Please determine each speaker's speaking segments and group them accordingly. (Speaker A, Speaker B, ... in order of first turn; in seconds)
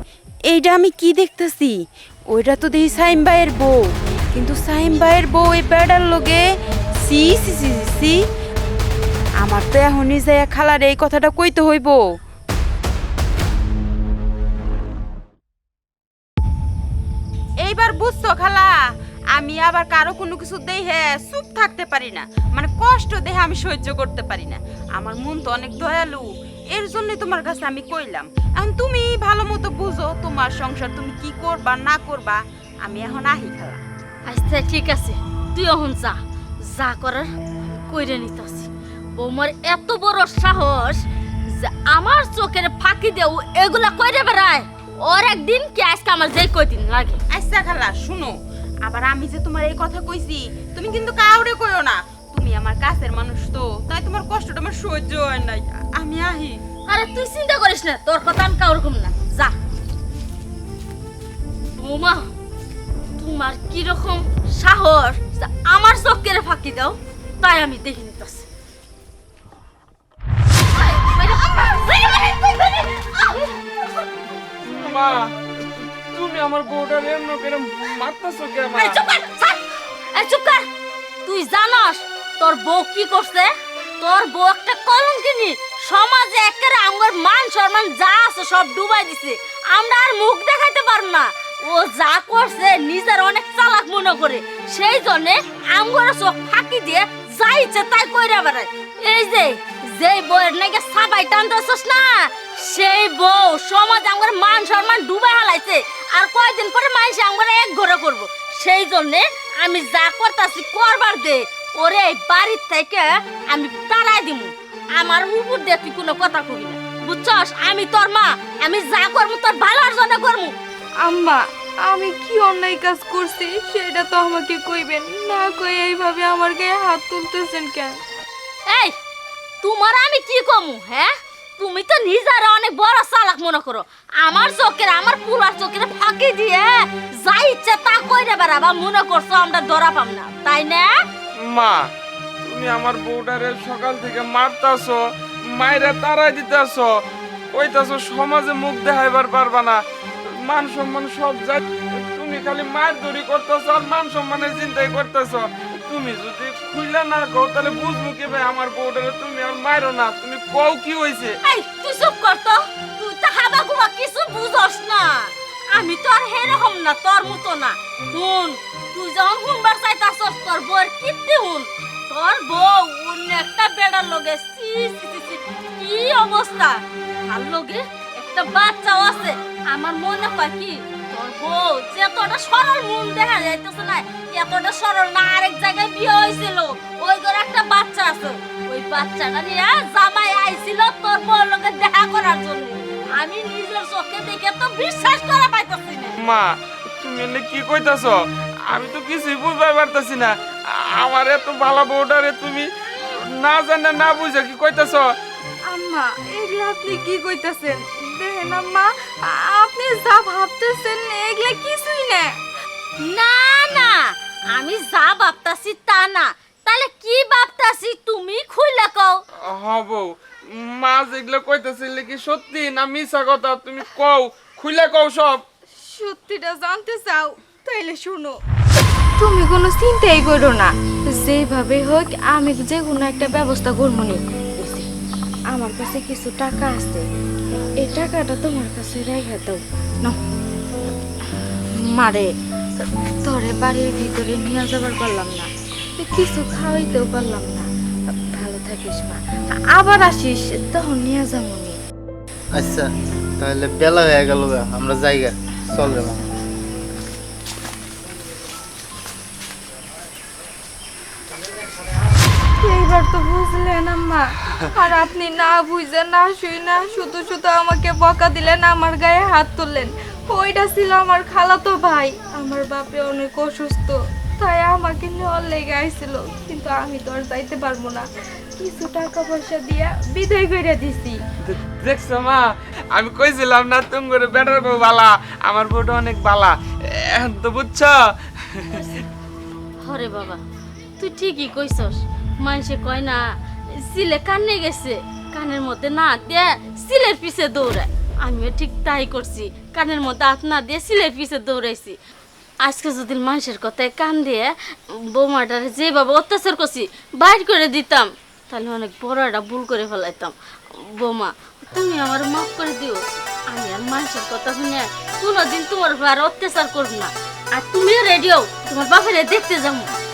Speaker A: 0.5-6.5, 7.0-8.2, 9.4-12.2, 17.6-18.8, 19.3-33.8, 47.3-56.6
Speaker B: 34.3-47.2, 56.9-59.5, 61.8-62.3, 63.2-68.5, 70.8-73.4, 78.8-79.6, 80.1-80.7, 81.2-120.6, 128.7-128.9, 129.6-141.0, 161.4-196.2, 213.0-219.2, 289.8-290.4, 291.0-293.2, 293.7-302.0, 302.6-319.9
Speaker C: 74.6-79.0, 141.4-141.9, 142.4-146.9, 147.5-161.4, 196.2-205.2, 219.4-225.4, 281.4-288.9
Speaker D: 121.0-128.0, 205.7-212.4, 225.8-228.4, 229.2-234.9, 235.5-237.0, 237.8-240.2, 241.9-249.2, 249.7-251.8, 262.6-278.1, 278.6-281.2
Speaker E: 252.5-252.9, 253.4-256.3